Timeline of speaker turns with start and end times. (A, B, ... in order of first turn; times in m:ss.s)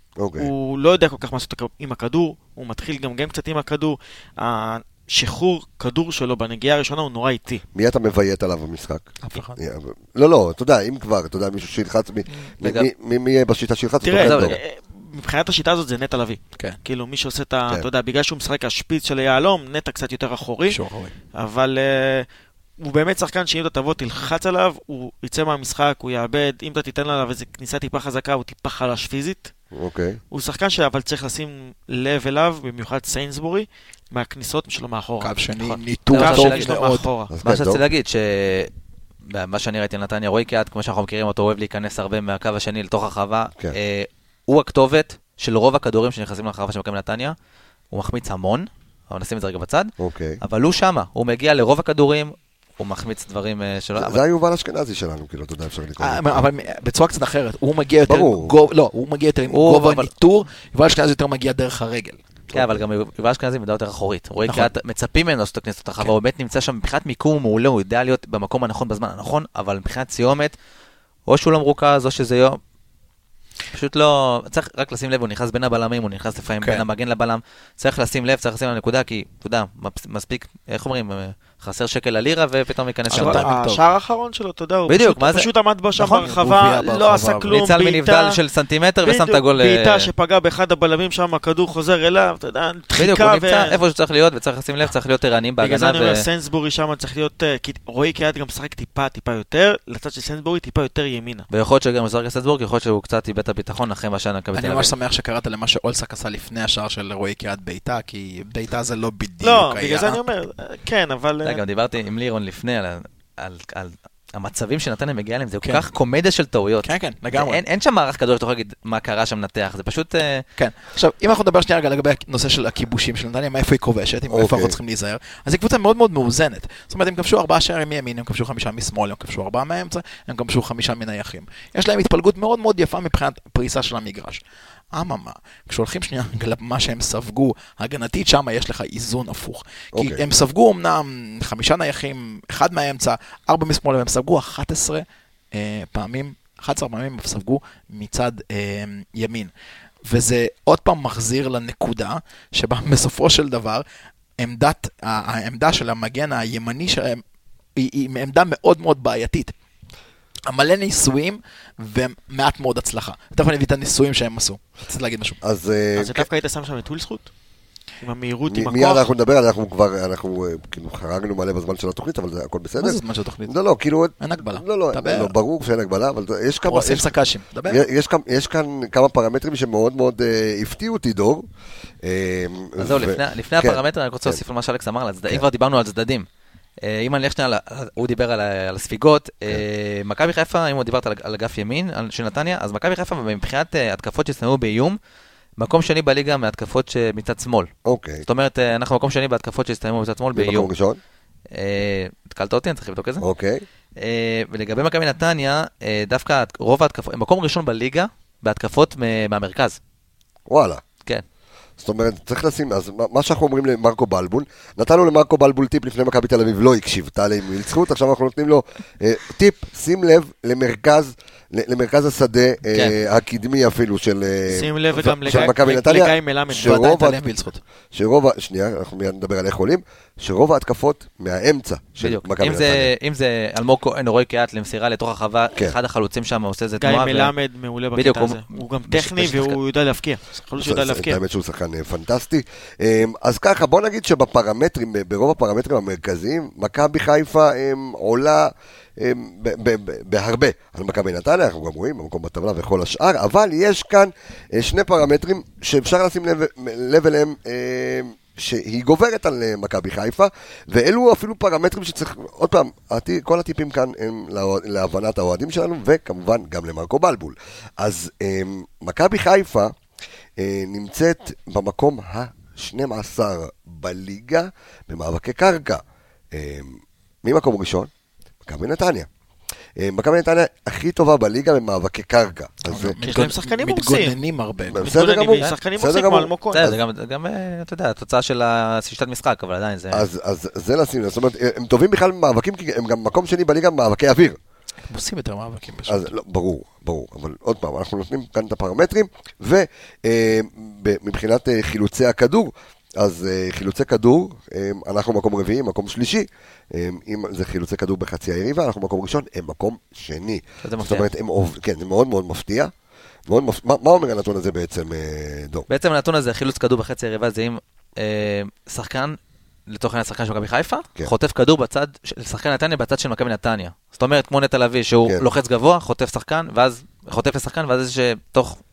0:00.2-0:00.5 A
0:00.4-0:07.6 B
0:07.7-0:14.6 A
0:09.2-0:09.6 C
0:12.6-0:12.9 D
0:14.0-0:20.8 B
0:14.1-0:14.6 D
0:20.7-0:21.1 C
0:21.3-0:22.3 B
0:22.8-0:29.5 B
0:29.7-0:30.2 A
0:30.3-0:35.4 B
0:35.2-0:37.1 C
0:36.1-0:36.7 D
0:36.1-0:37.3 B
0:37.3-0:37.8 A
0:37.4-0:38.7 D
0:39.3-0:47.4 D
0:47.9-0:54.2 D
0:50.0-0:50.4 A
0:54.0-0:56.4 A
0:56.0-1:02.2 C
0:58.1-0:58.5 A
0:59.5-1:00.1 D
1:02.5-1:10.5 D
1:04.5-1:04.7 C
1:11.3-1:12.6 D
1:13.7-1:23.5 D
1:23.1-1:23.8 C
1:23.1-1:28.4 B
1:24.9-1:25.5 D
1:26.0-1:27.6 C
1:27.5-1:30.1 D
1:29.0-1:33.8 B
1:33.0-1:36.2 D
1:35.6-1:41.5 B
1:41.5-1:44.9 D
1:44.5-1:50.2 C
1:49.4-1:51.6 B
1:51.4-2:00.4 D
1:55.6-1:55.9 C
1:56.8-1:57.6 C
2:00.6-2:29.5 C
2:04.3-2:04.8 A
2:19.9-2:20.2 A
2:30.0-2:33.8 C
2:34.4-2:37.2 C
2:37.8-2:39.5 C
2:40.5-2:45.4 C
2:45.4-2:46.3 A
2:46.0-2:47.3 B
2:48.0-2:49.1 B
2:48.5-2:57.1 A
2:52.8-2:53.5 C
2:54.2-2:55.3 C
2:56.7-2:57.8 C
2:57.7-3:01.5 A
3:02.0-3:04.4 A
3:02.8-3:06.3 D
3:06.8-3:15.0 D
3:15.6-3:17.7 D
3:17.8-3:18.2 A
3:18.3-3:20.7 D
3:20.4-3:21.0 A
3:21.5-3:23.3 D
3:23.2-3:23.6 A
3:24.0-3:29.8 D
3:30.5-3:30.8 A
3:31.8-3:47.2 A
3:44.5-3:46.9 B
3:46.5-3:47.6 C
3:47.9-3:52.9 A
3:52.0-3:57.3 D
3:56.8-4:01.2 B
3:58.0-3:59.6 D
4:00.6-4:29.7 A
4:30.4-4:35.8 A
4:36.3-4:37.9 A
4:38.4-4:39.1 A
4:39.8-4:43.0 A
4:42.6-4:44.9 C
4:43.0-4:44.2 B
4:44.7-4:46.8 A
4:44.8-4:46.7 B
4:46.5-4:50.1 D
4:49.9-4:54.4 A
4:54.9-4:56.1 C
4:55.9-5:12.7 A
5:10.6-5:11.1 D
5:13.3-5:15.7 A
5:15.7-5:19.2 D
5:19.7-5:28.6 D